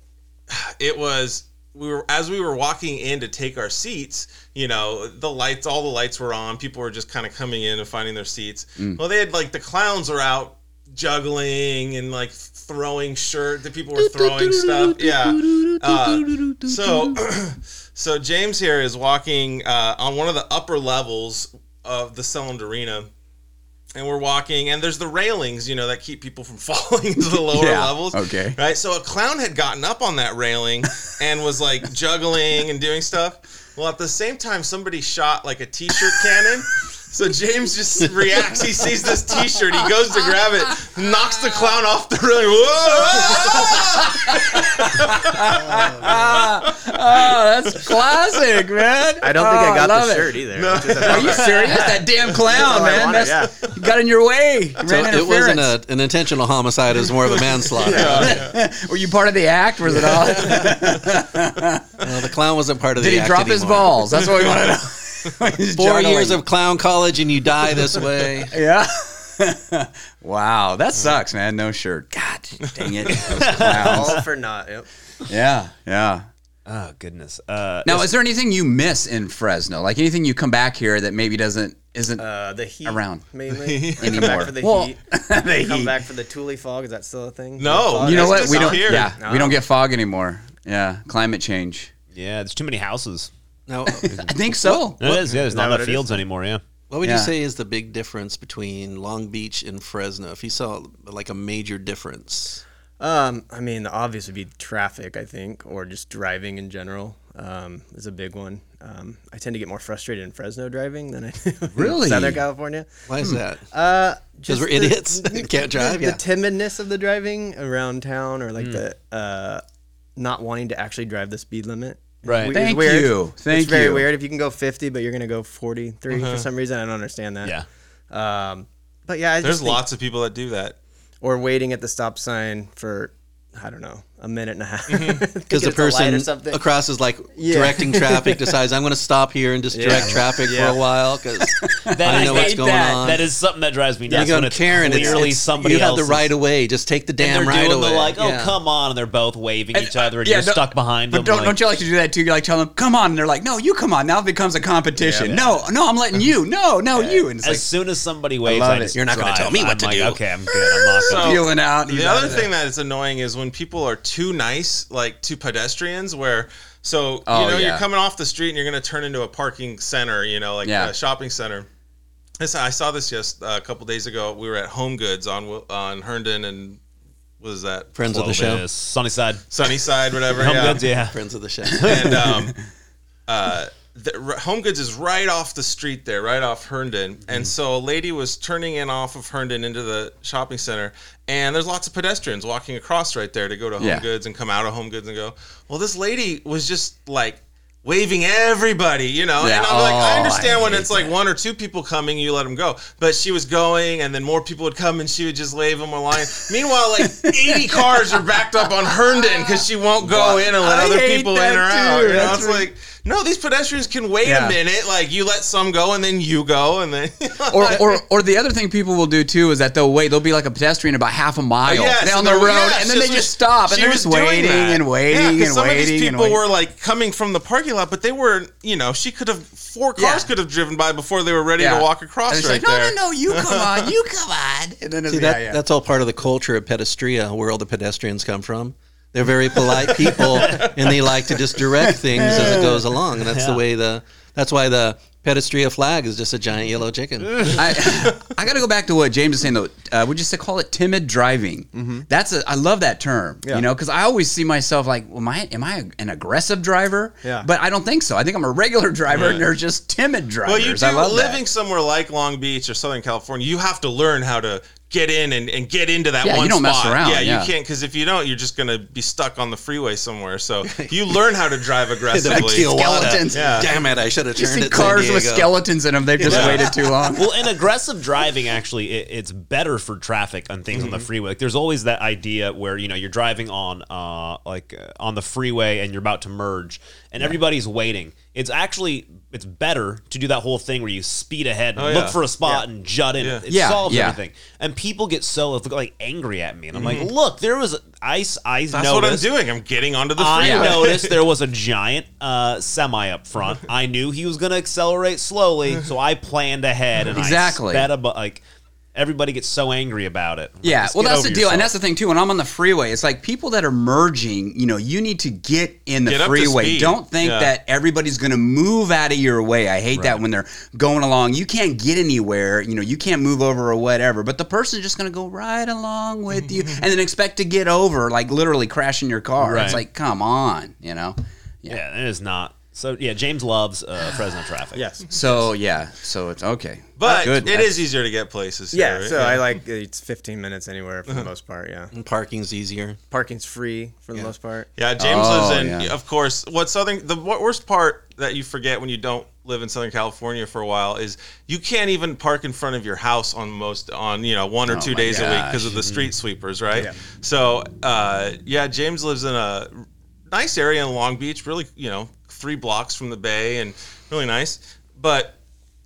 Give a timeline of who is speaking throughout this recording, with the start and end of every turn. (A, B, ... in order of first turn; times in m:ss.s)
0:00.5-0:23.1 A
0:14.0-0:17.2 B
0:23.9-0:47.3 A
0:27.5-0:28.6 B
0:43.0-0:50.4 B
0:49.2-0:53.7 C
0:50.6-0:52.6 A
0:51.0-0:55.8 B
0:54.8-0:58.4 D
0:57.5-0:58.6 A
0:57.8-0:58.3 C
0:57.9-1:02.0 B
1:00.5-1:00.8 A
1:02.0-1:04.2 D
1:03.0-1:06.4 B
1:05.7-1:08.6 D
1:08.5-1:14.2 B
1:12.6-1:13.3 A
1:13.2-1:14.2 E
1:13.6-1:14.9 C
1:15.3-1:16.3 B
1:16.6-1:18.1 E
1:17.8-1:22.2 B
1:22.2-1:29.6 C
1:22.8-1:23.2 B
1:23.5-1:24.5 A
1:24.0-1:26.0 B
1:27.6-1:29.1 A
1:28.0-1:31.9 B
1:32.1-1:33.3 E
1:33.7-1:34.2 D
1:33.9-1:35.2 B
1:34.0-1:36.6 E
1:35.0-1:36.2 C
1:36.9-1:42.6 D
1:37.0-1:37.3 B
1:43.0-1:53.0 C
1:51.8-1:52.4 B
1:53.1-1:53.6 D
1:53.7-1:59.6 C
1:54.5-1:56.2 D
1:58.6-1:58.8 E
2:00.2-2:07.6 C
2:02.2-2:02.6 E
2:02.5-2:04.1 B
2:06.1-2:06.5 A
2:08.1-2:09.8 C
2:09.4-2:10.8 A
2:11.2-2:16.6 C
2:14.9-2:15.3 A
2:15.5-2:23.3 D
2:17.4-2:18.6 C
2:19.7-2:20.8 C
2:21.4-2:23.1 B
2:21.9-2:26.3 E
2:24.1-2:28.6 D
2:27.2-2:31.6 E
2:29.7-2:37.7 B
2:35.0-2:35.4 C
2:36.9-2:41.4 E
2:38.4-2:38.9 B
2:38.9-2:40.2 D
2:41.1-2:51.7 A
2:41.1-2:42.5 B
2:47.3-2:47.8 B
2:50.6-2:50.9 B
2:52.4-2:56.8 A
2:57.4-2:58.0 A
2:57.9-2:58.6 D
2:58.1-2:59.5 E
2:59.5-3:00.8 A
3:00.3-3:02.2 E
3:00.8-3:02.1 D
3:01.8-3:02.6 A
3:03.3-3:38.0 A
3:13.8-3:14.1 B
3:19.4-3:21.1 B
3:27.0-3:28.2 B
3:28.8-3:32.7 B
3:34.2-3:34.6 B
3:37.5-3:46.4 B
3:41.6-3:53.9 A
3:50.0-3:50.3 B
3:51.6-3:55.6 B
3:55.1-4:07.6 D
4:01.9-4:02.9 B
4:03.3-4:03.6 E
4:07.5-4:21.4 B
4:11.7-4:12.1 C
4:17.2-4:17.5 C
4:19.1-4:19.4 A
4:20.4-4:33.7 A
4:26.2-4:27.5 B
4:30.6-4:30.9 D
4:32.1-4:35.5 D
4:32.2-4:33.7 B
4:34.4-4:37.4 B
4:36.2-4:36.8 D
4:36.2-4:36.7 A
4:37.1-4:59.3 E
4:40.7-4:41.1 A
4:51.8-4:52.2 A
4:53.5-4:54.2 B
4:56.7-4:57.1 A
4:58.7-5:01.2 A
5:00.2-5:08.4 E
5:00.4-5:00.9 B
5:07.1-5:07.9 B
5:08.9-5:11.7 E
5:10.6-5:31.8 B
5:16.0-5:17.5 A
5:19.9-5:20.2 E
5:29.4-5:29.8 E
5:31.7-5:34.8 E
5:34.7-5:35.5 C
5:35.1-5:37.8 B
5:37.0-5:39.6 A
5:38.7-5:41.9 C
5:41.9-5:43.0 D
5:43.1-5:44.7 C
5:44.8-6:05.4 A
5:45.0-5:45.9 B
5:54.7-5:55.8 B
5:55.8-5:56.1 E